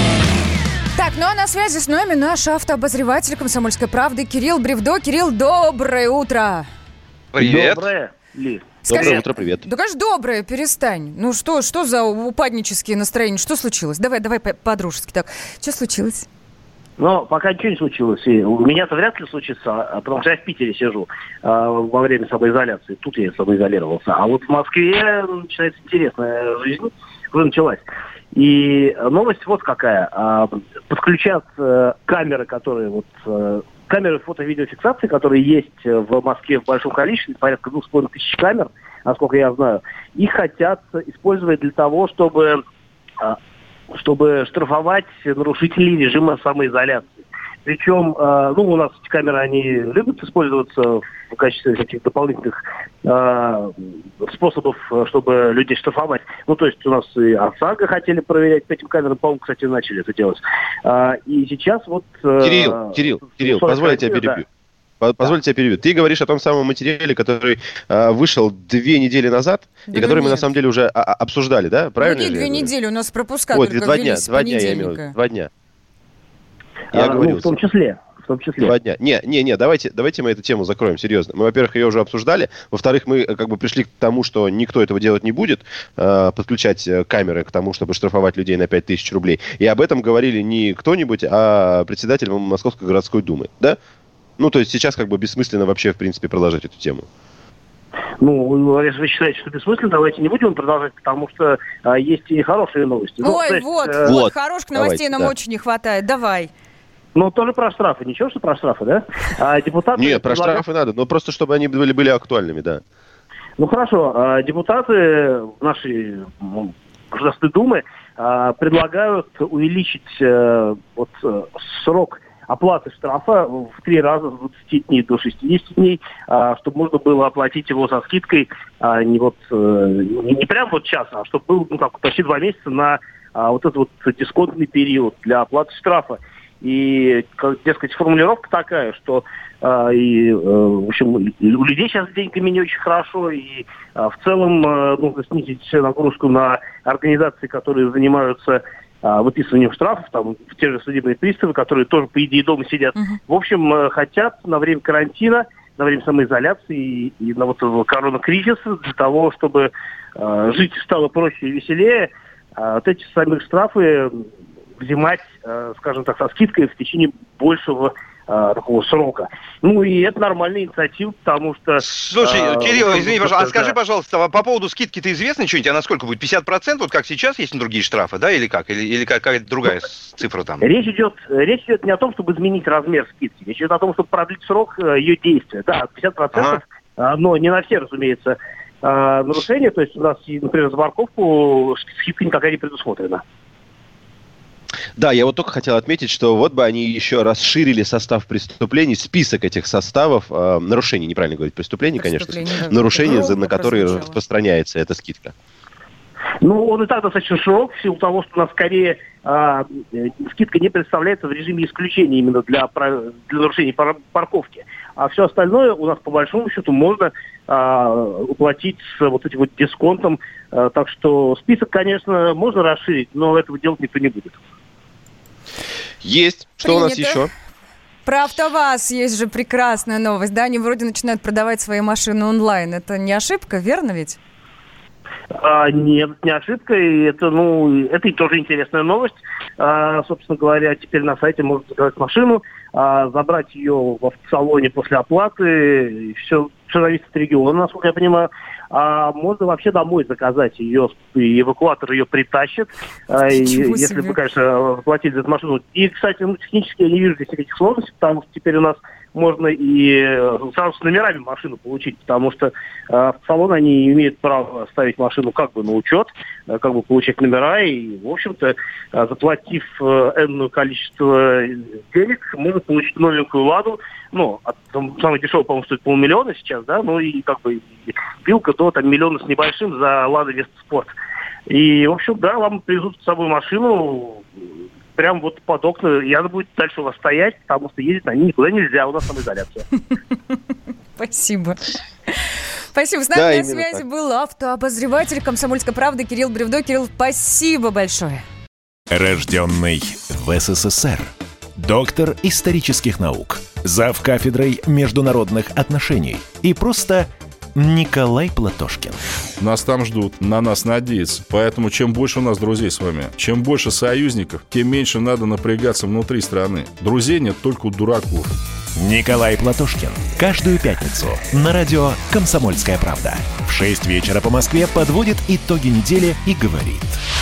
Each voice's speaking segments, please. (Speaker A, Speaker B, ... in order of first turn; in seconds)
Speaker A: 0.9-6.7, 8.8-16.3, 69.9-70.5, 72.0-75.1, 103.2-106.5, 201.9-204.2, 226.6-227.3, 228.0-234.2, 253.3-254.1, 290.9-298.2
Speaker B: 7.3-7.8, 171.8-180.6, 186.3-186.6
Speaker C: 7.4-9.2, 17.0-42.6, 43.9-64.4, 76.9-78.7, 98.2-104.1, 107.1-110.6, 113.6-164.2, 164.8-173.8, 180.6-193.2, 206.4-224.4, 235.3-280.9, 281.5-284.2, 284.9-289.6
Speaker D: 8.9-9.7, 62.4-64.5, 65.0-72.7, 73.5-75.5, 76.9-77.5, 78.6-93.8, 94.4-97.0, 104.0-105.3, 110.0-112.8, 195.0-205.3, 226.0-227.3, 293.1-293.8
Speaker E: 298.9-309.0, 318.8-327.0
Speaker F: 309.4-318.3